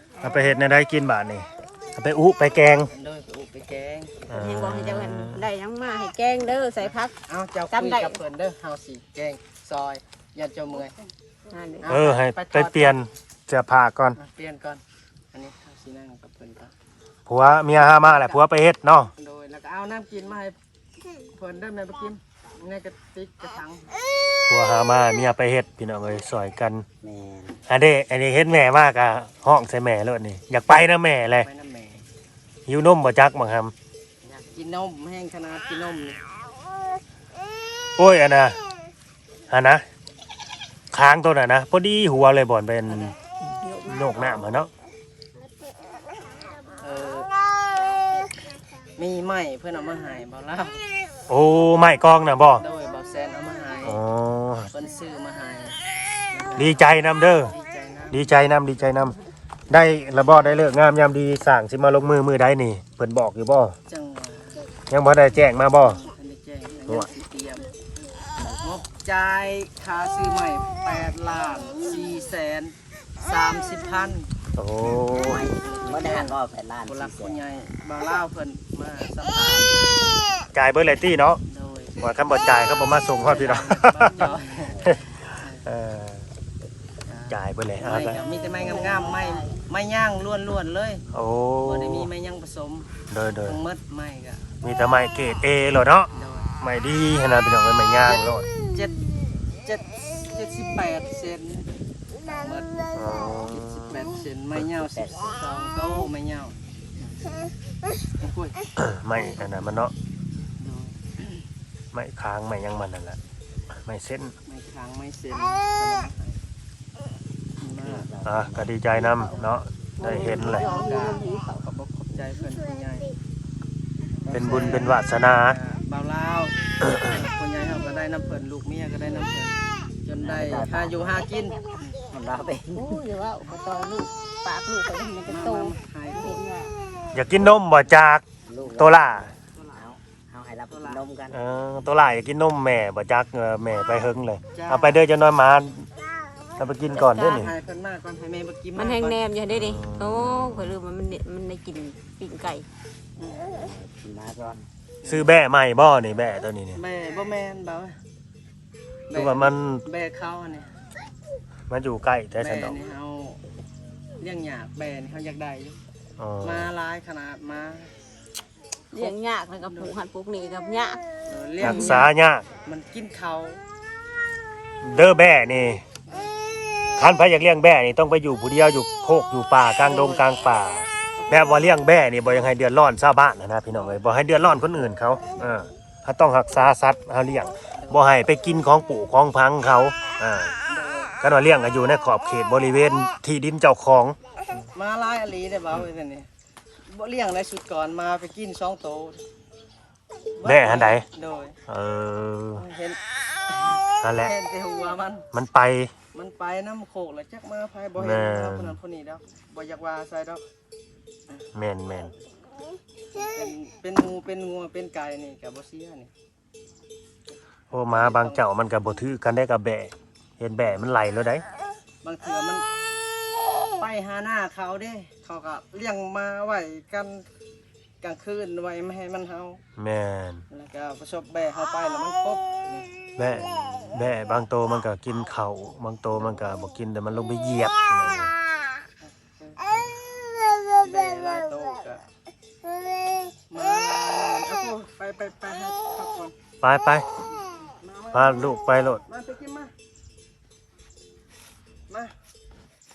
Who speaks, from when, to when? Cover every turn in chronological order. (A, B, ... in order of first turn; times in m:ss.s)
0:00.1-0:00.6 A
0:00.2-0:02.9 B
0:02.9-0:04.2 C
0:04.3-0:05.4 B
0:04.3-0:07.1 A
0:06.8-0:11.0 C
0:07.7-0:08.2 A
0:11.5-0:11.9 A
0:11.8-0:13.0 C
0:11.9-0:14.2 B
0:14.2-0:14.8 C
0:15.3-0:16.7 C
0:17.3-0:19.1 B
0:17.8-0:18.4 C
0:19.2-0:20.6 C
0:21.3-0:23.9 C
0:24.5-0:26.9 B
0:27.0-0:27.6 D
0:27.7-0:31.5 B
0:31.4-0:32.0 C
0:32.7-0:33.7 B
0:34.2-0:36.2 C
0:38.0-0:38.6 B
0:39.5-0:39.8 B
0:40.9-0:43.1 B
0:42.9-0:44.7 A
0:43.8-0:44.7 B
0:46.8-0:47.3 C
0:49.0-0:50.8 C
0:51.3-0:52.6 B
0:52.6-0:54.0 C
0:53.8-0:54.7 B
0:54.7-0:55.8 C
0:56.3-0:58.5 C
0:56.5-0:57.6 B
0:58.1-0:59.2 B
0:59.7-1:03.8 B
1:00.3-1:00.6 C
1:03.9-1:04.7 C
1:04.9-1:06.0 B
1:05.6-1:07.7 C
1:08.4-1:08.6 D
1:08.6-1:14.3 C
1:14.5-1:15.4 B
1:15.1-1:17.4 D
1:15.6-1:19.8 C
1:20.5-1:21.4 B
1:21.5-1:22.2 C
1:22.0-1:24.3 B
1:23.1-1:25.7 C
1:24.6-1:25.0 D
1:24.8-1:26.3 B
1:27.1-1:31.0 C
1:27.3-1:28.2 B
1:28.7-1:29.2 D
1:31.1-1:32.1 B
1:31.6-1:32.9 C
1:33.1-1:33.6 B
1:33.4-1:34.5 C
1:34.6-1:38.5 B
1:36.1-1:36.5 C
1:38.0-1:39.0 C
1:39.6-1:41.7 C
1:42.2-1:47.2 C
1:42.9-1:44.0 B
1:44.9-1:45.4 D
1:48.2-1:49.5 C
1:48.8-1:49.9 B
1:50.6-1:51.4 C
1:51.9-1:53.2 B
1:53.7-1:54.4 B
1:54.5-1:56.4 C
1:57.6-1:58.1 C
1:57.8-1:58.7 D
1:58.2-2:00.7 B
1:59.0-1:59.4 A
2:00.0-2:01.6 A
2:00.0-2:03.1 C
2:04.3-2:09.5 C
2:04.3-2:04.7 D
2:04.3-2:05.6 B
2:06.8-2:07.3 B
2:10.0-2:12.0 C
2:10.2-2:11.2 D
2:12.1-2:13.0 D
2:12.8-2:16.7 A
2:15.3-2:16.4 C
2:17.1-2:19.3 B
2:18.5-2:21.4 D
2:19.6-2:19.9 C
2:20.7-2:21.0 C
2:21.3-2:25.9 B
2:24.5-2:25.0 C
2:26.6-2:27.5 B
2:26.9-2:27.4 A
2:27.0-2:29.2 C
2:28.8-2:32.7 A
2:29.5-2:30.8 B
2:33.2-2:33.5 C
2:33.4-2:34.6 D
2:35.0-2:35.4 C
2:35.1-2:36.8 B
2:36.8-2:38.0 C
2:39.1-2:40.7 C
2:39.1-2:39.8 B
2:41.7-2:42.8 B
2:42.4-2:43.4 C
2:44.2-2:45.8 C
2:46.2-2:46.7 B
2:46.4-2:47.9 C
2:48.9-2:51.0 A
2:48.9-2:49.9 C
2:51.3-2:52.1 C
2:51.6-2:52.5 B
2:51.6-2:52.1 A
2:52.6-2:53.6 C
2:54.8-2:55.9 B
2:57.0-3:10.5 B
2:59.9-3:00.2 C
3:01.2-3:01.8 C
3:03.7-3:04.1 C
3:07.8-3:08.1 C
3:10.7-3:11.2 C
3:11.2-3:14.2 B
3:14.7-3:16.3 C
3:16.8-3:19.2 C
3:20.4-3:21.6 C
3:20.4-3:21.1 B
3:21.7-3:22.6 B
3:22.6-3:25.3 C
3:24.0-3:24.3 B
3:25.3-3:25.9 B
3:26.1-3:30.4 C
3:28.0-3:28.8 B
3:31.5-3:32.1 B
3:33.1-3:36.1 C
3:37.7-3:39.1 C
3:37.7-3:41.4 B
3:42.0-3:42.6 C
3:43.8-3:47.2 C
3:48.0-3:49.6 C
3:49.8-3:50.4 B
3:50.5-3:52.9 C
3:53.2-3:58.3 B
3:56.1-3:56.5 C
3:59.0-3:59.6 C
4:00.8-4:02.0 C
4:03.5-4:06.4 C
4:06.6-4:07.1 B
4:07.6-4:09.7 C
4:08.1-4:09.0 B
4:11.9-4:12.1 C